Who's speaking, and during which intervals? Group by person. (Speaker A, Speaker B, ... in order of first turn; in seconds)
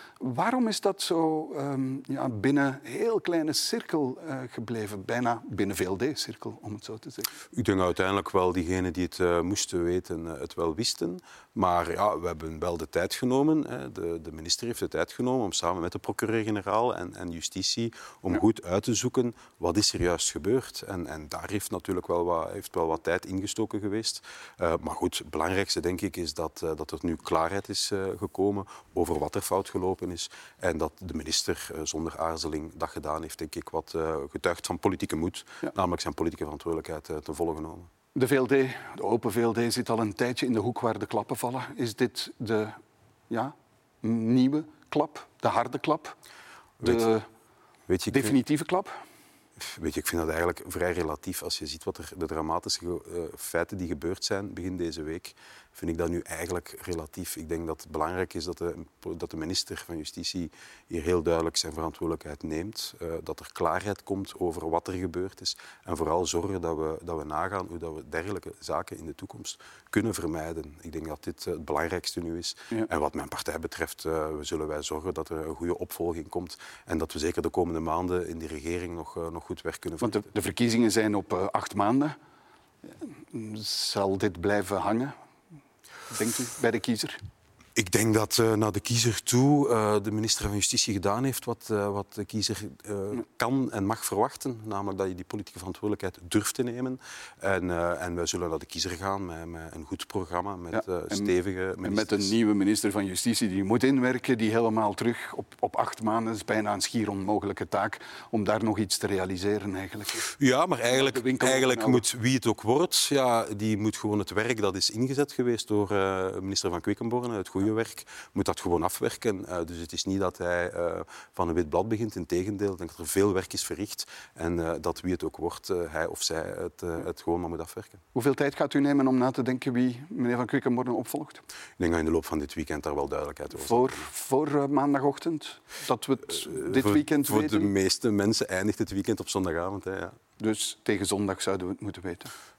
Speaker A: 0.2-7.3, 38.1-42.8, 43.3-46.1, 46.8-47.2, 48.1-49.0, 80.0-82.2, 83.0-85.1, 86.1-87.2, 101.1-110.3, 110.9-112.0, 128.1-131.4, 133.6-137.7, 140.4-142.3
Speaker B: 7.5-37.9, 46.8-47.0, 47.9-48.3, 49.6-80.2, 87.8-102.3, 110.2-128.0, 131.8-134.0, 136.4-140.2